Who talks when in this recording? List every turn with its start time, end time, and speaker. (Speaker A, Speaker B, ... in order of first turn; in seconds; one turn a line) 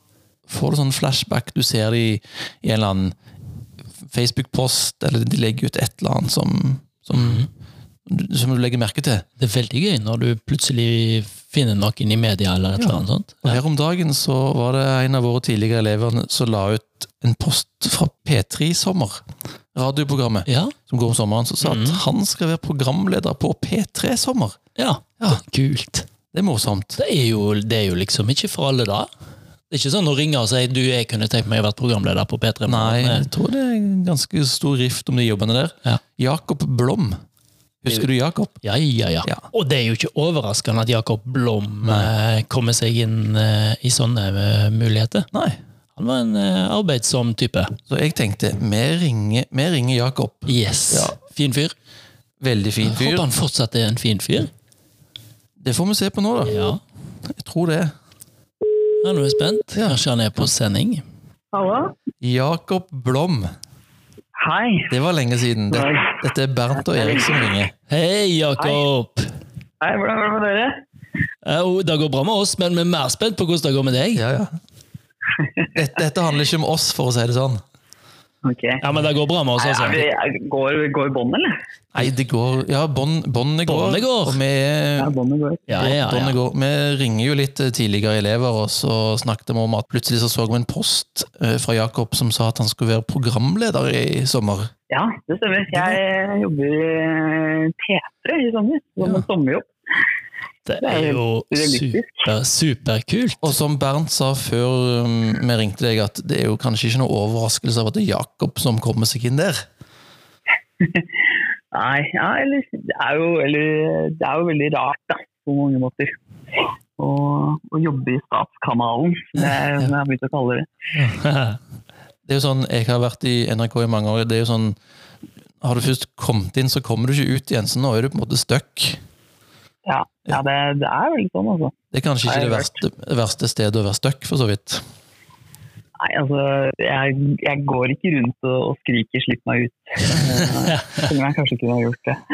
Speaker A: 0.5-3.1
Speaker A: 4.0-7.5
Speaker B: 7.1-7.5
Speaker A: 8.1-9.2
Speaker B: 9.4-13.6
Speaker A: 12.8-24.6
Speaker B: 20.5-20.7
Speaker B: 21.6-22.0
Speaker B: 24.8-26.1
Speaker A: 26.3-27.0
Speaker B: 27.0-29.1
Speaker B: 29.7-33.3
Speaker A: 32.6-37.1
Speaker A: 37.8-38.6
Speaker B: 38.6-45.3
Speaker A: 41.8-42.1
Speaker A: 45.3-45.6
Speaker B: 46.0-47.7
Speaker A: 47.9-51.2
Speaker B: 50.5-51.7
Speaker A: 52.4-53.2
Speaker B: 52.8-54.5
Speaker A: 55.6-56.6
Speaker B: 56.5-56.8
Speaker A: 57.3-57.9
Speaker B: 59.0-61.0
Speaker A: 59.8-60.4
Speaker C: 61.5-62.0
Speaker A: 62.2-63.5
Speaker C: 64.3-65.0
Speaker A: 64.9-67.7
Speaker C: 65.7-66.2
Speaker C: 66.7-67.5
Speaker B: 67.9-69.3
Speaker C: 68.6-68.8
Speaker C: 69.8-70.7
Speaker B: 71.4-74.2
Speaker A: 74.1-74.5
Speaker C: 75.4-75.7
Speaker A: 75.7-77.6
Speaker C: 78.4-78.8
Speaker B: 78.8-80.0
Speaker C: 79.6-81.5
Speaker A: 81.9-85.1
Speaker B: 83.7-84.4
Speaker C: 85.0-85.9
Speaker B: 85.7-86.4
Speaker A: 85.8-94.7
Speaker C: 94.9-99.7
Speaker A: 95.7-96.0
Speaker B: 100.7-103.5
Speaker C: 100.8-102.3
Speaker A: 103.4-109.6
Speaker C: 111.7-116.1
Speaker C: 117.0-120.7
Speaker B: 121.0-121.6
Speaker A: 122.2-124.8
Speaker A: 125.6-129.0
Speaker C: 129.8-131.7
Speaker A: 131.9-134.8
Speaker C: 132.2-132.8
Speaker C: 136.0-142.2
Speaker B: 140.7-141.0